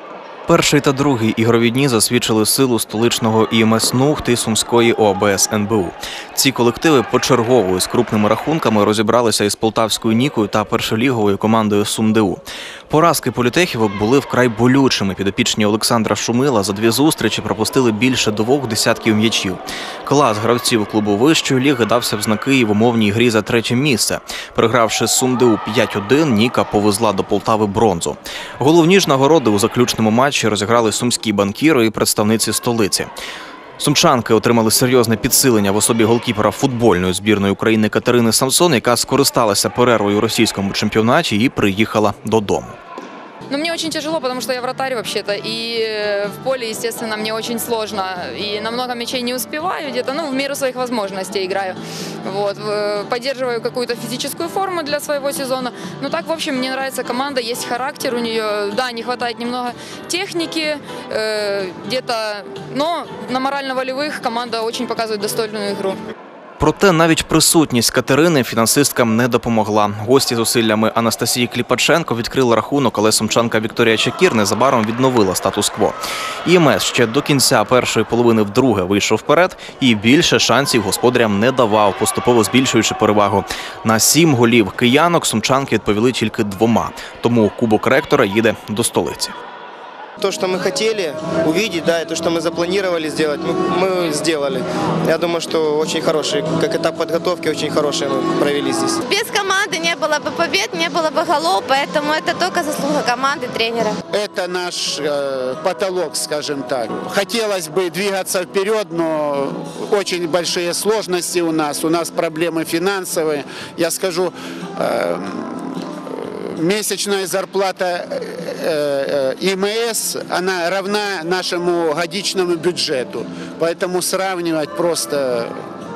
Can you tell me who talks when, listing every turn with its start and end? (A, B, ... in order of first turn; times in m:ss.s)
0:00.5-0:33.1 A
0:33.8-0:42.8 A
0:43.5-1:06.0 B
1:06.6-1:29.4 A
1:30.2-1:39.0 C
1:39.0-1:44.0 D
1:44.1-2:05.6 E